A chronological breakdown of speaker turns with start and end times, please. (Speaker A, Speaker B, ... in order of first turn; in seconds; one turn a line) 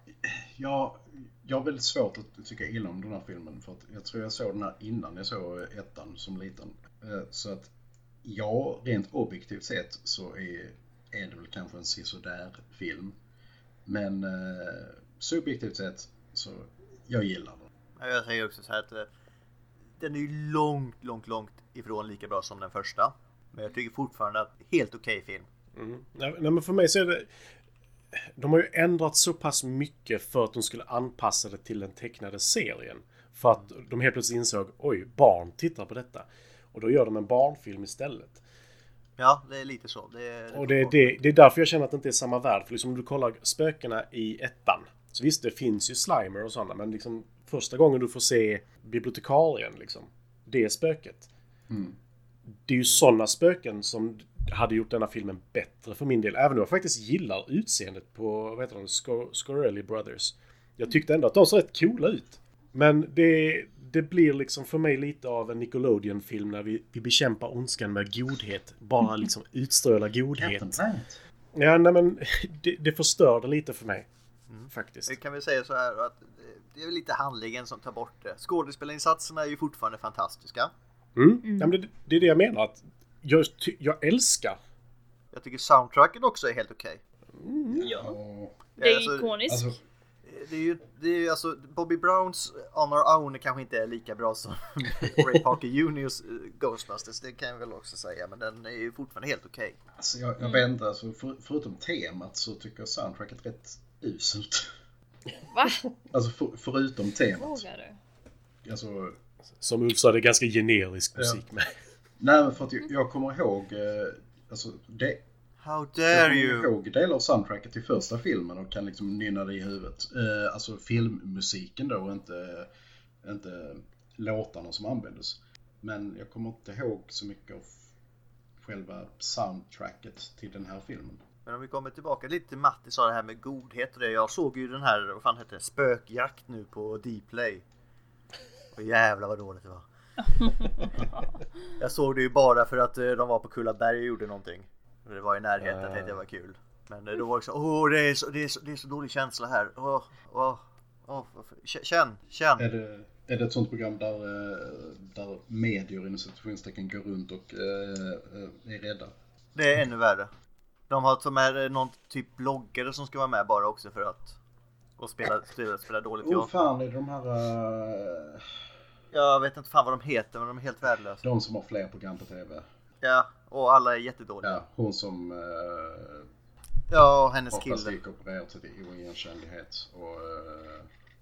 Speaker A: 0.2-7.7
Speaker A: 8.2-13.2
Speaker A: 13.8-17.7
Speaker B: 18.0-19.1
Speaker B: 20.0-25.5
Speaker C: 25.8-27.3
Speaker C: 28.2-38.4
Speaker B: 39.2-41.2
Speaker C: 40.5-51.3
Speaker A: 51.7-52.0
Speaker C: 52.6-70.8
Speaker A: 70.3-71.2
Speaker C: 71.5-74.1
Speaker B: 74.5-80.7
Speaker C: 74.7-75.1
Speaker C: 81.2-84.6
Speaker D: 81.4-81.7
Speaker B: 85.3-87.0
Speaker C: 87.4-87.9
Speaker A: 87.7-88.6
Speaker D: 87.8-88.1
Speaker B: 88.8-89.4
Speaker D: 88.8-89.8
Speaker A: 89.5-89.8
Speaker B: 90.2-99.8
Speaker A: 99.9-104.7
Speaker D: 100.4-100.6
Speaker D: 105.5-105.8
Speaker A: 106.1-107.6
Speaker D: 107.4-108.0
Speaker A: 108.6-109.2
Speaker C: 109.6-111.7
Speaker A: 112.2-115.2
Speaker B: 115.6-116.7
Speaker A: 116.1-122.7
Speaker A: 123.2-127.9
Speaker A: 128.6-131.2
Speaker B: 131.4-137.6
Speaker B: 138.7-139.8
Speaker B: 140.4-140.7
Speaker B: 141.8-152.7
Speaker C: 145.6-146.2
Speaker A: 152.6-159.1
Speaker B: 159.5-160.3
Speaker B: 160.9-164.4
Speaker B: 165.0-166.6
Speaker A: 166.2-168.5
Speaker B: 169.1-171.2
Speaker A: 171.2-172.6
Speaker B: 173.0-174.6
Speaker A: 174.4-176.3
Speaker B: 176.9-177.9
Speaker A: 177.5-180.9